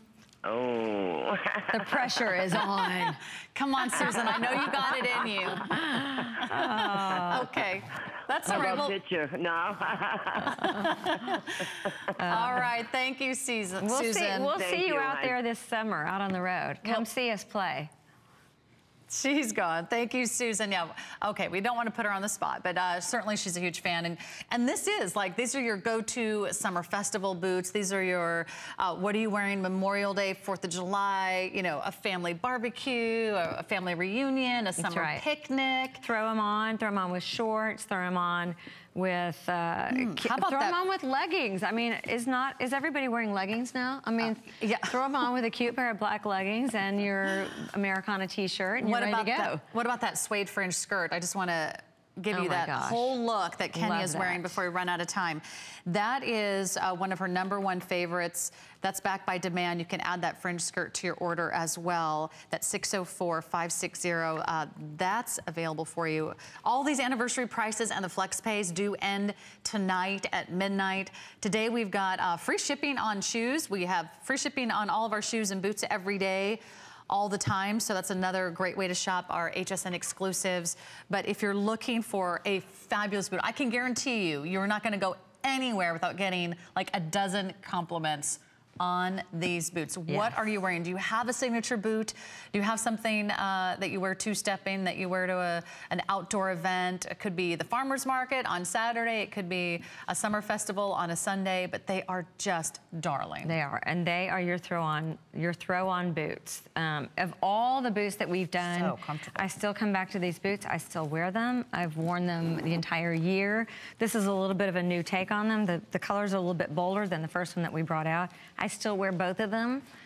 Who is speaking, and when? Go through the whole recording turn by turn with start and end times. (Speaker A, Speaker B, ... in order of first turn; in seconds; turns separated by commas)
Speaker A: 0.4-2.2, Speaker B: 1.7-3.2, Speaker C: 2.7-5.8, Speaker B: 3.9-4.3, Speaker A: 4.3-5.1, Speaker B: 5.5-7.5, Speaker C: 6.3-9.0, Speaker A: 8.5-11.4, Speaker B: 8.5-8.8, Speaker B: 10.6-11.1, Speaker C: 10.7-14.5, Speaker B: 12.2-12.7, Speaker B: 13.8-17.9, Speaker A: 14.5-15.4, Speaker C: 19.1-36.0, Speaker B: 34.8-35.2, Speaker B: 36.0-49.6, Speaker C: 39.9-40.8, Speaker C: 44.2-45.0, Speaker C: 48.8-103.5, Speaker B: 52.3-53.2, Speaker B: 53.7-54.6, Speaker B: 90.1-90.5, Speaker B: 103.4-119.8, Speaker C: 108.6-109.5